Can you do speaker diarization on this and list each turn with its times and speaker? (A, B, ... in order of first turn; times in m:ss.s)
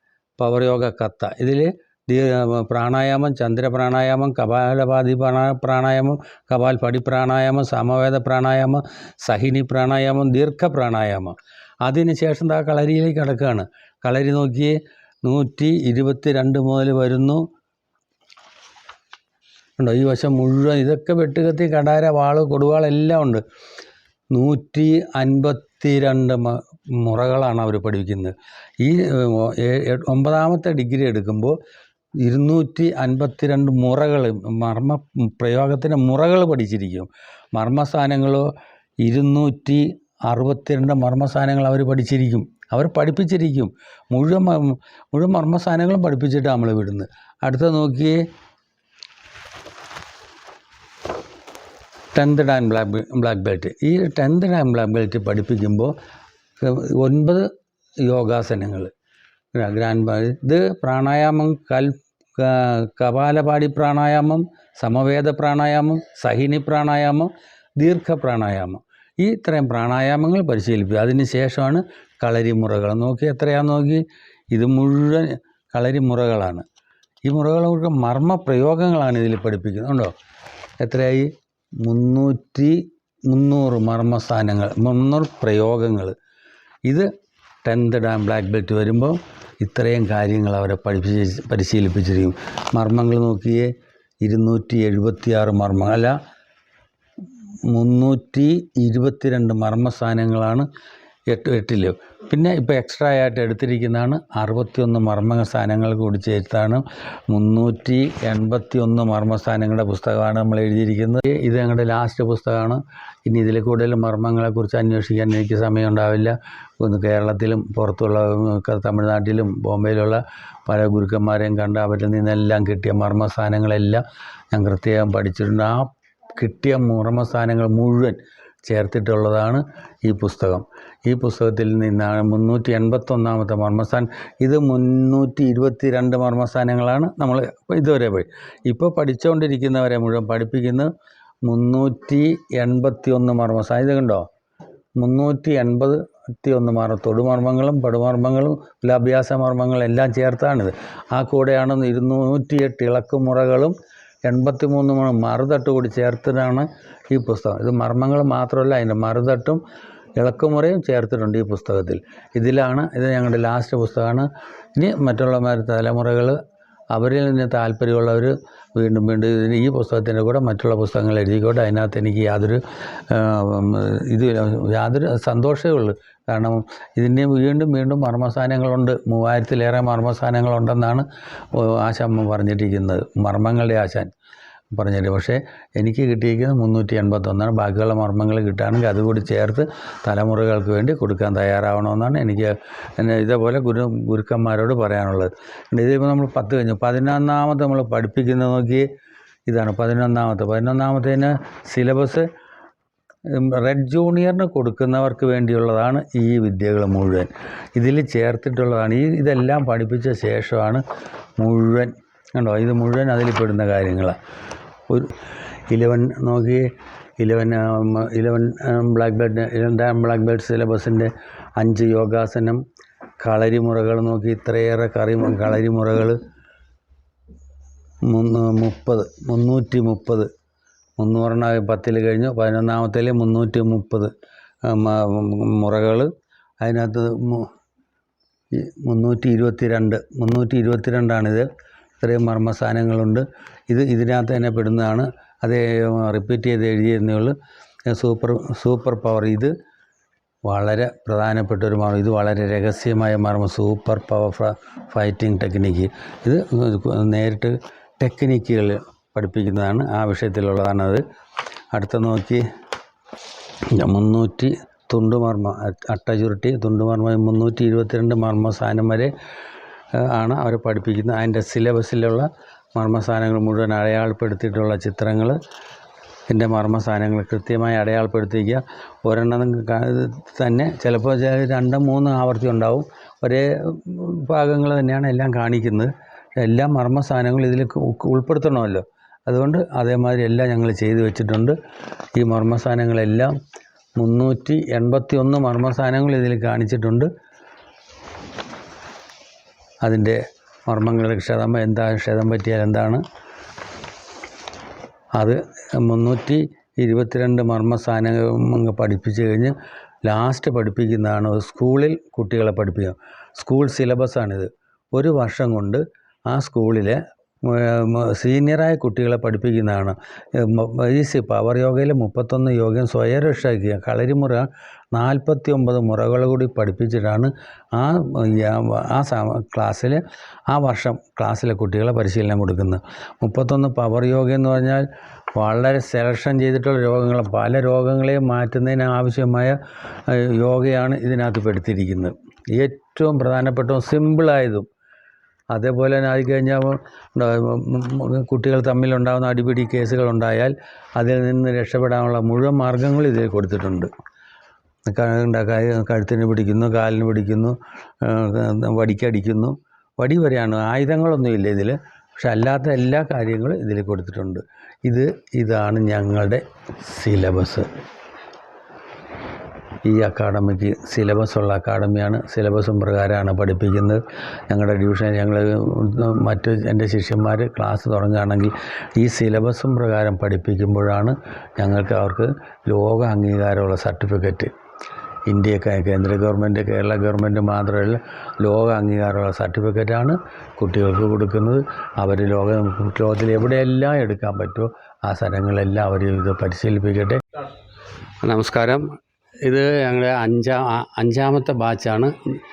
0:00.4-0:17.5 A
0:19.8-0:23.4 A
0:24.3-0:31.6 A
0:32.2-0:38.5 A
0:39.0-0:48.2 A
0:52.2-0:55.9 A
0:56.6-0:57.5 A
0:58.1-0:58.9 A
0:59.5-1:16.6 A
1:17.3-1:20.1 A
1:20.8-1:21.3 A
1:21.8-1:26.2 A
1:27.6-1:33.7 A
1:34.2-1:36.2 A
1:37.7-1:40.7 A
1:41.3-2:20.9 A
2:21.4-2:24.3 A
2:25.0-2:39.6 A
2:40.2-2:46.4 A
2:46.9-3:04.1 A
3:04.7-3:18.9 A
3:19.5-3:22.3 A
3:23.3-3:30.8 A
3:31.4-3:34.2 A
3:34.9-3:35.1 A
3:35.7-3:36.7 A
3:37.2-3:42.6 A
3:43.2-3:46.2 A
3:48.1-3:50.3 A
3:51.0-3:54.1 A
3:54.7-3:56.1 A
3:56.6-3:57.5 A
3:58.5-4:01.5 A
4:02.0-4:07.4 A
4:07.9-4:09.5 A
4:10.5-4:21.0 A
4:21.7-4:22.4 A
4:23.7-4:29.1 A
4:30.0-4:35.4 A
4:36.3-4:51.6 A
4:52.2-4:53.3 A
4:54.0-4:57.1 A
4:59.8-5:03.0 A
5:05.2-5:09.6 A
5:10.1-5:39.6 A
5:40.1-5:44.7 A
5:45.5-5:53.9 A
5:54.9-6:07.7 A
6:09.8-6:24.5 A
6:25.3-6:37.2 A
6:38.2-6:38.8 A
6:39.4-6:42.1 A